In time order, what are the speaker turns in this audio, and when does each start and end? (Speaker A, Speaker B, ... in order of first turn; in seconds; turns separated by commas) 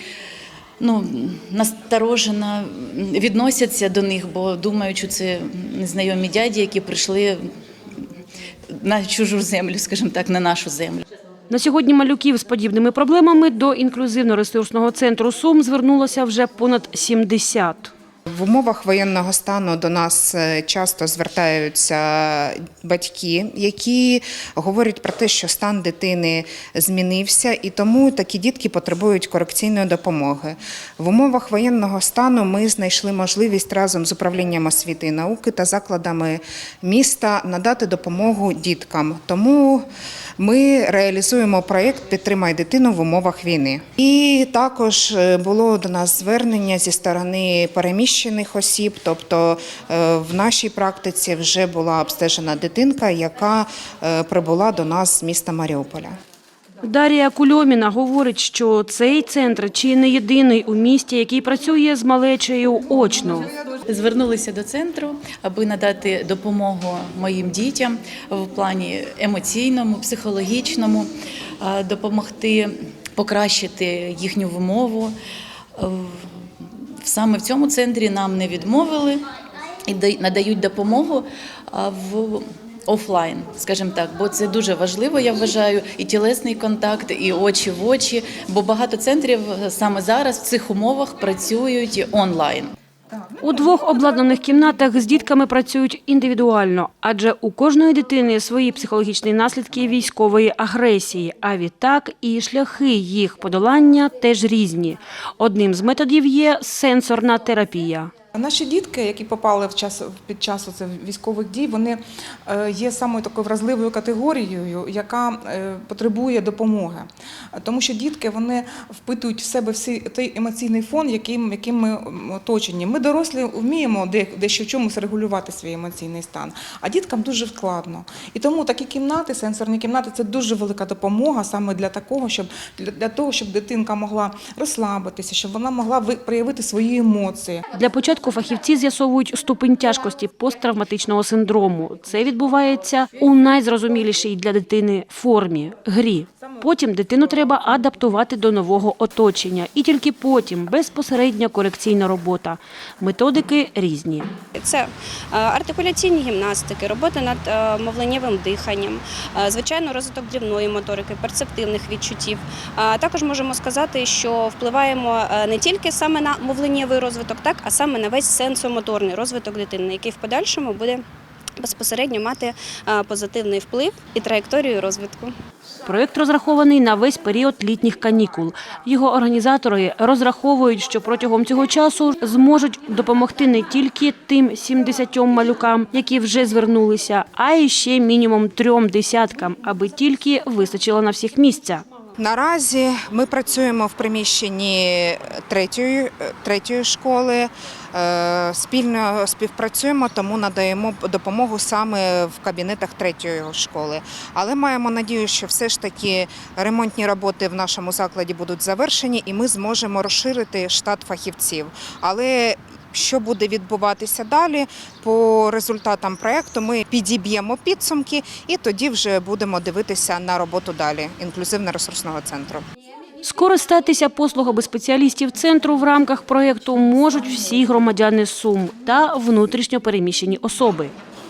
Speaker A: 0.8-7.4, Speaker A: 8.7-11.0, Speaker B: 11.5-17.9, Speaker C: 18.3-39.9, Speaker C: 40.4-56.1, Speaker B: 56.8-63.5, Speaker A: 63.6-75.1, Speaker A: 75.8-79.2, Speaker A: 79.9-92.7, Speaker D: 93.1-93.6, Speaker B: 93.4-108.1, Speaker D: 108.3-137.6, Speaker B: 137.7-154.3, Speaker E: 154.6-171.0, Speaker E: 171.6-175.3, Speaker B: 175.8-191.8, Speaker C: 192.2-222.6, Speaker B: 223.2-230.9